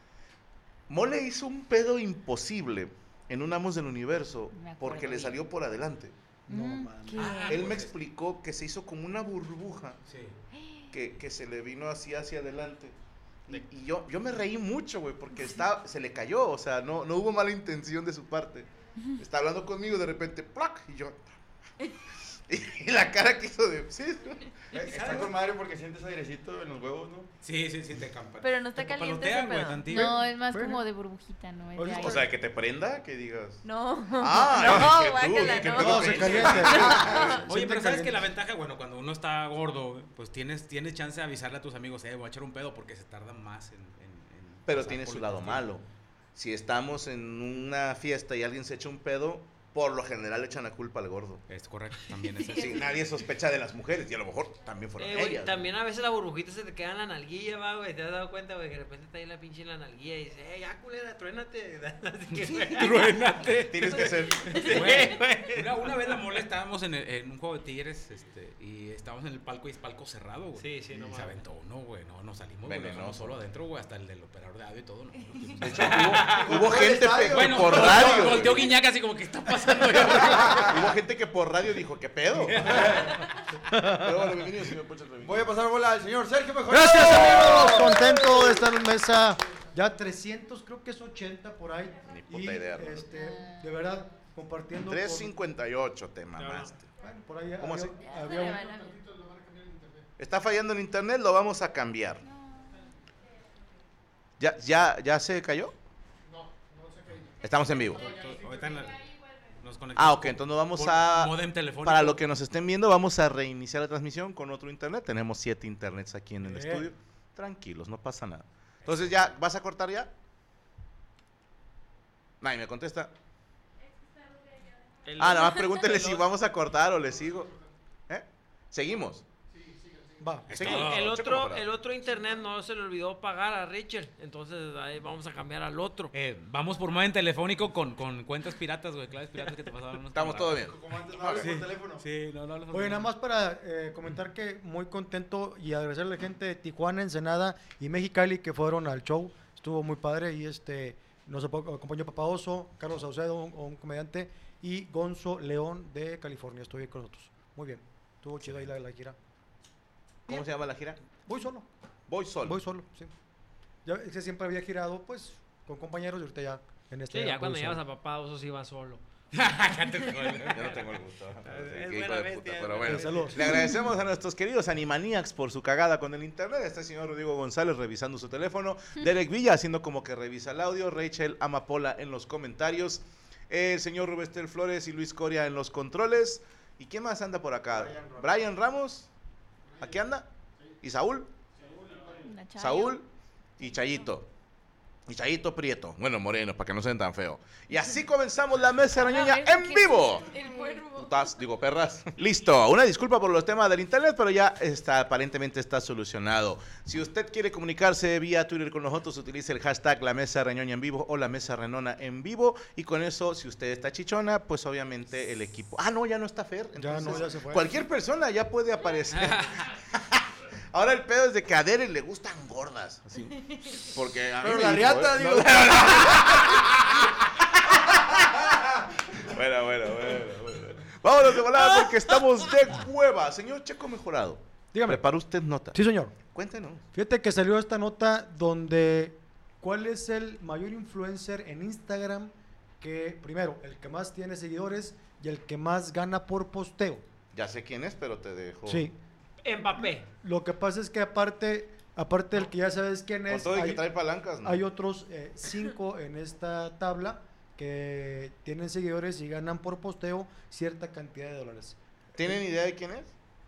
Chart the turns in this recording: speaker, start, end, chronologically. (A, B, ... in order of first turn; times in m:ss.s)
0:00.9-0:06.1 A
0:04.5-0:05.4 B
0:06.5-0:07.4 C
0:06.5-0:07.0 B
0:07.0-0:07.6 D
0:07.1-0:07.9 E
0:07.5-0:10.0 A
0:10.1-0:10.4 E
0:10.5-0:10.9 D
0:10.9-0:12.9 A
0:13.5-0:21.2 A
0:22.5-0:25.3 A
0:24.7-0:27.3 F
0:24.9-0:25.3 E
0:27.4-0:30.2 E
0:28.4-0:30.0 D
0:29.9-0:32.3 B
0:30.5-0:30.8 C
0:31.8-0:32.2 C
0:31.9-0:33.6 A
0:33.6-0:37.4 D
0:34.2-0:37.4 A
0:34.6-0:34.9 F
0:35.6-0:38.2 C
0:37.5-0:45.7 E
0:44.7-0:51.4 A
0:51.5-0:53.0 E
0:52.5-0:55.7 A
0:55.0-1:03.3 G
1:02.6-1:16.4 E
1:03.6-1:04.9 A
1:04.4-1:06.1 G
1:10.6-1:11.4 G
1:12.6-1:13.4 A
1:15.6-1:18.7 A
1:15.9-1:18.6 F
1:17.3-1:20.8 E
1:20.0-1:22.9 A
1:20.4-1:20.7 F
1:22.3-1:23.2 E
1:22.7-1:23.1 F
1:23.9-1:25.6 A
1:25.2-1:28.4 F
1:26.7-1:35.3 C
1:32.1-1:33.1 A
1:33.1-1:33.6 B
1:34.8-1:36.8 A
1:36.4-1:36.7 G
1:37.0-1:38.7 C
1:37.6-1:38.0 A
1:38.0-1:39.0 D
1:40.2-1:42.2 A
1:42.2-1:42.8 B
1:44.4-1:45.7 A
1:47.4-1:48.2 A
1:48.0-1:52.2 E
1:49.9-2:00.1 A
1:56.4-1:56.9 C
2:02.4-2:03.1 A
2:05.0-2:06.2 G
2:05.2-2:07.6 A
2:08.1-2:09.2 A
2:10.2-2:10.5 C
2:10.5-2:11.1 E
2:10.5-2:11.7 A
2:10.6-2:16.1 G
2:16.1-2:20.7 E
2:20.1-2:21.5 A
2:20.6-2:22.0 F
2:21.4-2:23.1 E
2:22.7-2:39.1 C
2:40.3-2:41.0 A
2:41.2-2:41.6 C
2:42.1-2:42.6 A
2:42.4-2:43.1 C
2:43.8-2:47.8 C
2:47.1-2:49.0 G
2:49.3-2:50.9 E
2:50.5-3:09.1 A
2:51.4-2:53.4 G
2:52.8-2:53.6 C
3:07.7-3:08.2 F
3:09.8-3:10.3 A
3:10.8-3:11.3 A
3:12.2-3:13.0 B
3:12.6-3:13.0 A
3:13.6-3:14.3 A
3:15.1-3:20.3 A
3:19.0-3:20.9 B
3:20.2-3:21.4 D
3:21.0-3:48.6 A
3:36.8-3:37.7 C
3:39.1-3:39.5 G
3:44.4-3:46.3 F
3:49.1-3:55.8 A
3:54.7-3:55.0 C
3:55.7-3:56.1 C
3:56.3-3:56.8 A
3:56.9-4:07.0 C
4:07.3-4:08.9 A
4:08.6-4:09.0 C
4:09.4-4:10.1 G
4:09.7-4:21.8 C
4:13.3-4:14.6 A
4:22.1-4:23.1 A